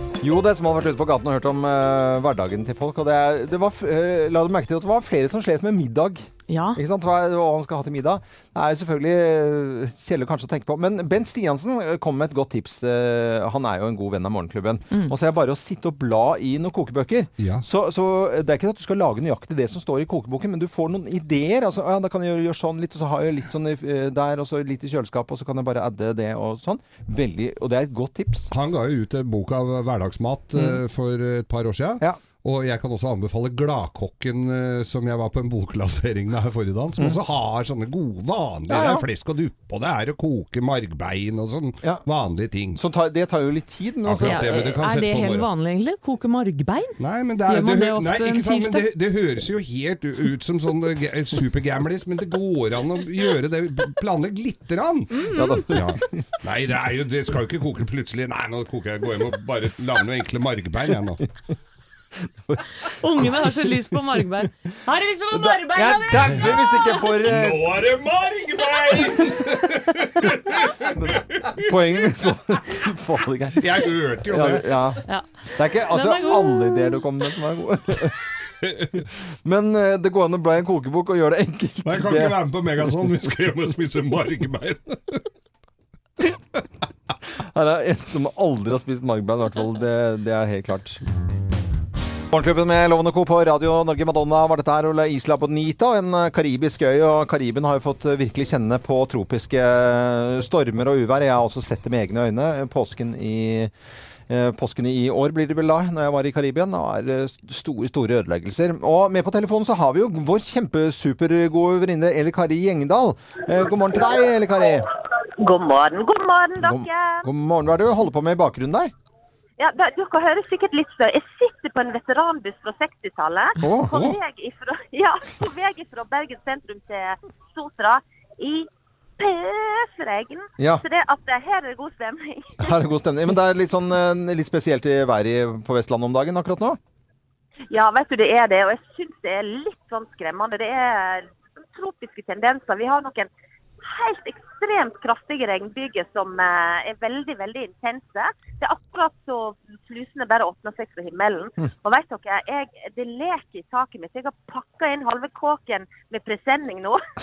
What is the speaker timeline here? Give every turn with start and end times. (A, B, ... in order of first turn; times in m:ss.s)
0:00.2-0:28.5 A
0:06.5-0:06.8 B
0:17.4-0:17.6 C
0:28.5-0:42.8 C
0:30.5-0:30.8 A
0:38.7-0:39.0 A
0:42.7-0:44.8 A
0:44.0-0:45.5 C
0:44.2-0:48.9 B
0:47.0-1:01.2 C
0:55.2-0:55.5 B
0:55.3-0:56.2 A
1:02.5-1:04.2 A
1:02.8-1:06.4 B
1:05.3-1:07.8 A
1:07.2-1:11.7 C
1:10.8-1:18.2 A
1:13.6-1:14.9 C
1:15.0-1:17.0 B
1:18.6-1:18.9 C
1:19.4-1:22.4 A
1:21.8-1:25.2 C
1:27.4-1:31.0 A
1:32.3-1:43.7 A
1:44.3-1:54.8 A
1:55.4-1:57.2 D
1:56.6-1:58.9 A
1:59.6-2:12.7 D
2:03.6-2:04.1 A
2:10.6-2:10.8 A
2:12.6-2:16.8 A
2:17.7-2:23.3 D
2:23.8-2:37.0 D